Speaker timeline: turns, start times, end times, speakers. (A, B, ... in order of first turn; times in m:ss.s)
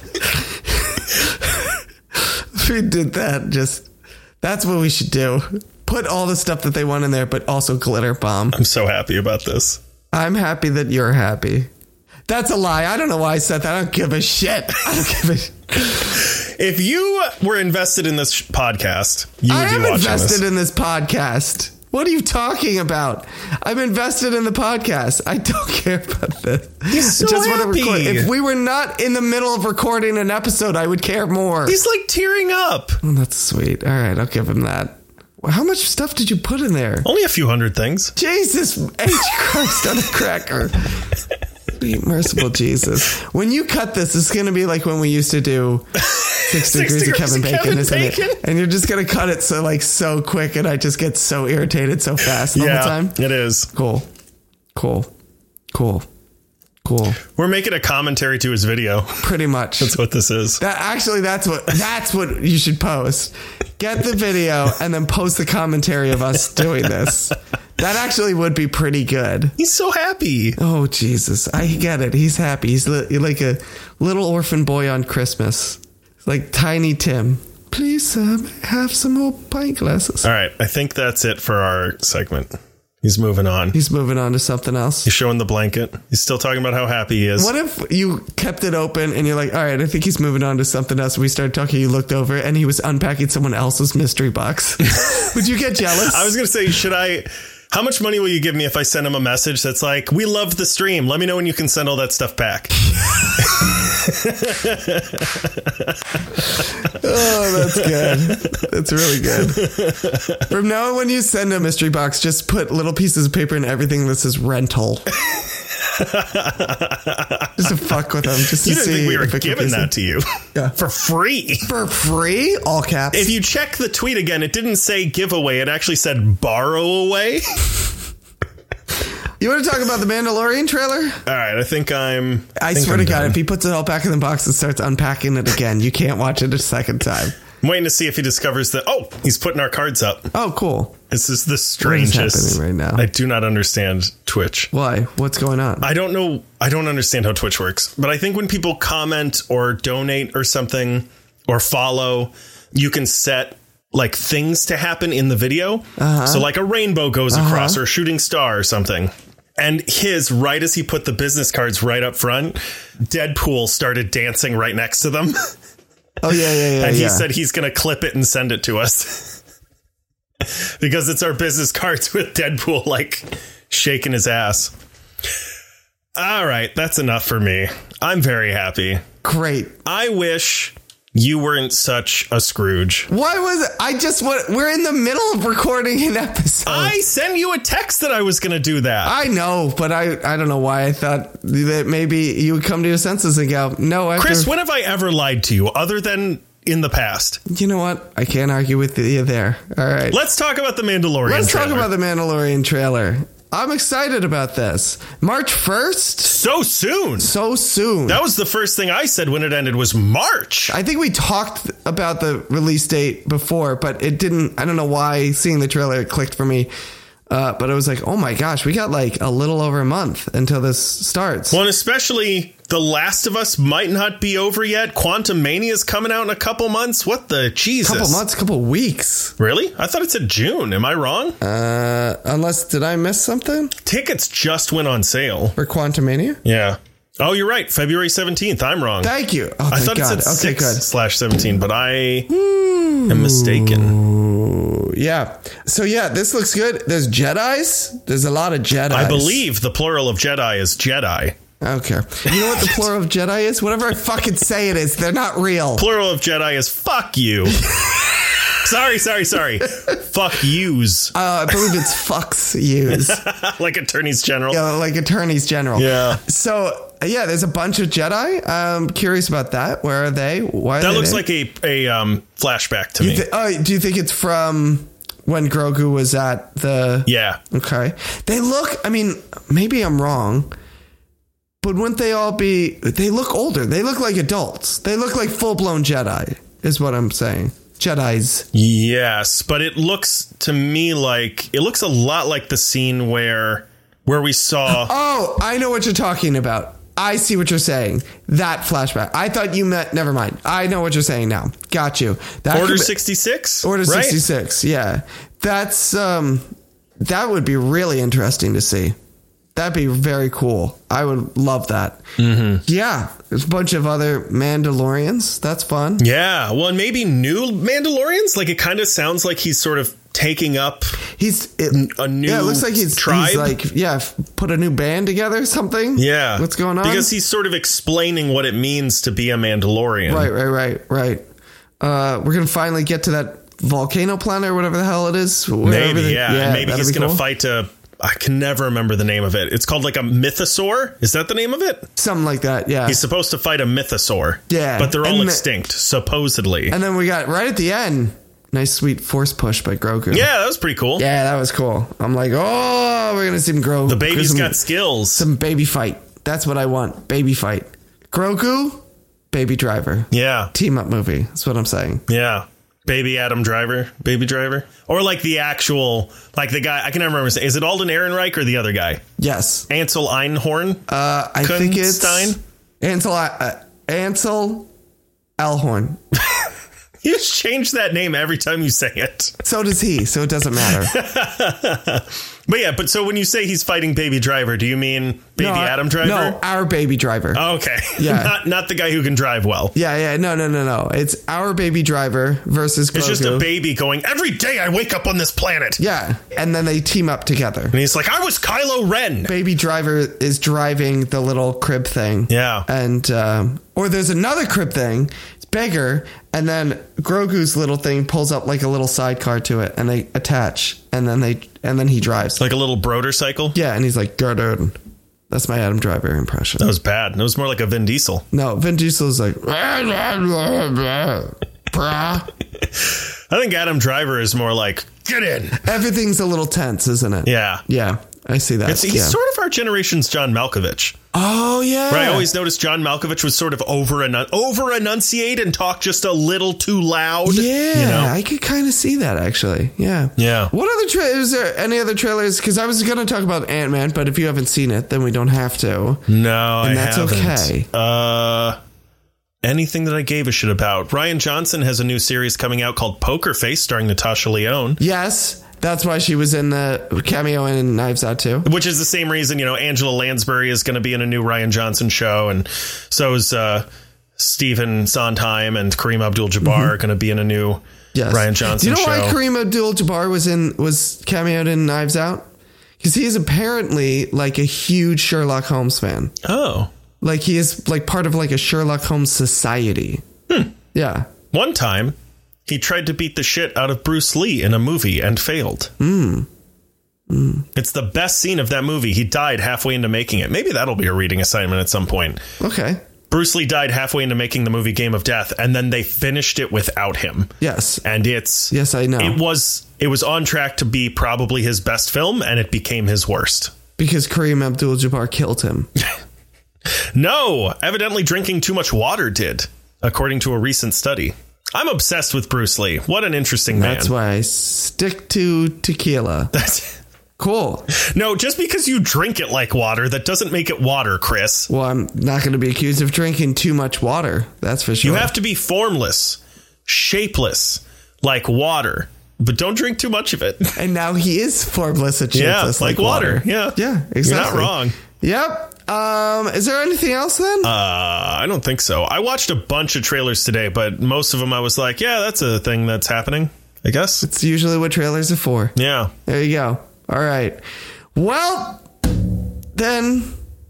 0:00.2-0:03.9 A
0:04.4-0:08.6 A
0:08.5-0:09.8 B
0:10.1-0:11.7 A
0:12.3-0:16.2 A
0:16.1-0:20.4 B
0:19.5-0:31.8 A
0:26.9-0:28.3 B
0:31.6-0:33.0 B
0:33.0-0:37.1 A
0:37.0-0:38.1 B
0:38.2-0:41.0 A
0:41.8-0:45.9 A
0:46.0-0:48.4 B
0:46.5-0:53.2 A
0:52.5-0:53.7 B
0:53.7-0:54.1 A
0:54.7-0:55.1 A
0:55.7-0:56.0 A
0:56.8-0:57.2 A
0:57.3-0:59.3 B
0:59.2-1:00.0 A
0:59.8-1:00.6 B
1:00.6-1:09.6 A
1:09.6-1:10.6 B
1:10.6-1:20.2 A
1:20.2-1:22.5 B
1:23.0-1:23.8 B
1:23.7-1:25.1 A
1:25.0-1:27.5 B
1:27.4-1:36.3 A
1:35.9-1:42.8 B
1:43.1-1:43.5 A
1:43.4-1:48.6 B
1:46.9-1:49.7 A
1:49.2-1:50.4 B
1:50.5-1:55.1 A
1:55.3-1:57.9 B
1:57.6-1:59.9 A
1:58.6-2:01.7 B
2:01.7-2:03.3 A
2:03.1-2:07.4 B
2:09.4-2:11.2 A
2:11.2-2:13.4 B
2:12.6-2:17.4 A
2:17.6-2:20.3 B
2:20.3-2:21.0 A
2:21.1-2:24.7 B
2:21.8-2:23.0 A
2:24.7-2:25.9 A
2:25.8-2:45.5 B
2:36.0-2:36.5 A
2:37.3-2:37.8 A
2:46.2-2:47.3 A
2:46.6-2:49.4 B
2:50.4-2:54.7 B
2:56.2-2:59.0 B
2:59.2-2:59.8 A
2:59.8-3:03.1 B
3:03.1-3:07.0 A
3:06.6-3:09.2 B
3:09.0-3:14.5 A
3:14.2-3:17.4 B
3:17.5-3:20.2 A
3:20.1-3:21.9 B
3:21.2-3:26.4 A
3:26.2-3:27.3 B
3:27.2-3:28.2 A
3:28.1-3:30.8 B
3:30.7-3:36.7 A
3:37.3-3:41.6 A
3:41.5-3:48.2 B
3:47.8-3:49.3 A
3:49.4-3:51.4 B
3:51.4-3:53.7 A
3:53.8-3:55.6 B
3:55.6-3:56.4 A
3:56.4-3:59.1 B
3:59.0-4:00.8 A
3:59.7-4:02.3 B
4:02.3-4:09.4 A
4:03.1-4:04.0 B
4:08.9-4:11.3 B
4:11.6-4:15.8 A
4:12.3-4:12.8 B
4:15.8-4:18.0 B
4:17.6-4:18.5 A
4:18.5-4:21.7 B
4:21.1-4:23.2 A
4:22.9-4:24.6 B
4:24.5-4:31.2 A
4:25.8-4:26.2 B
4:30.8-4:33.2 B
4:33.0-4:40.5 A
4:37.0-4:37.4 B
4:41.6-4:48.5 A
4:48.5-4:54.9 B
4:54.7-5:02.9 A
5:02.5-5:04.2 B
5:03.6-5:06.5 A
5:07.0-5:08.9 A
5:09.5-5:12.0 A
5:12.2-5:12.6 B
5:12.6-5:16.0 A
5:16.0-5:21.0 B
5:21.2-5:27.1 A
5:21.7-5:23.5 B
5:26.0-5:30.3 B
5:30.1-5:31.2 A
5:31.8-5:37.2 A
5:35.6-5:41.9 B
5:42.0-5:43.0 A
5:42.8-5:46.8 B
5:44.5-5:45.4 A
5:46.7-5:50.3 A
5:50.1-5:51.0 B
5:51.0-6:02.0 A
5:53.9-5:55.2 B
6:00.1-6:00.5 B
6:02.1-6:09.0 B
6:09.2-6:09.7 A
6:09.7-6:10.8 B
6:10.9-6:14.7 A
6:11.4-6:12.4 B
6:15.4-6:16.0 A
6:17.0-6:19.4 B
6:19.4-6:20.9 A
6:20.6-6:26.4 B
6:25.4-6:27.4 A
6:27.3-6:29.7 B
6:28.0-6:28.4 A
6:29.7-6:33.5 A
6:32.9-6:35.8 B
6:35.8-6:37.7 A
6:37.7-6:39.3 B
6:39.2-6:52.4 A
6:42.3-6:42.6 B
6:52.4-6:53.6 B
6:53.5-6:54.8 A
6:55.3-6:56.7 A
6:56.6-6:58.2 B
6:58.3-7:02.3 A
7:02.8-7:05.7 B
7:05.6-7:09.2 A
7:07.2-7:07.6 B
7:08.6-7:11.0 B
7:11.1-7:12.3 A
7:11.9-7:18.1 B
7:17.2-7:26.0 A
7:20.2-7:20.5 B
7:26.1-7:28.6 B
7:26.6-7:27.7 A
7:29.4-7:34.8 B
7:34.8-7:38.5 A
7:38.4-7:43.6 B
7:44.2-7:49.2 B
7:46.4-7:46.7 A
7:47.9-7:52.3 A
7:52.8-7:56.1 A
7:56.2-7:56.7 B
7:57.0-8:00.0 A
8:00.3-8:00.5 B
8:00.7-8:01.1 A
8:01.3-8:01.9 B
8:02.4-8:05.7 B
8:05.8-8:06.3 A
8:07.1-8:07.4 A
8:07.5-8:12.2 B
8:12.4-8:12.8 A
8:13.1-8:23.5 B
8:17.4-8:17.8 A
8:18.5-8:19.2 A
8:23.8-8:25.7 A
8:26.9-8:33.9 B
8:33.5-8:36.3 A
8:36.3-8:36.8 B
8:37.2-8:37.7 A
8:37.7-8:41.5 B
8:41.5-8:45.1 A
8:44.8-8:50.6 B
8:50.6-8:57.5 A
8:52.1-8:54.8 B
8:57.4-9:04.0 B
9:04.0-9:05.5 A
9:05.6-9:05.9 B
9:06.0-9:07.4 A
9:07.9-9:10.1 A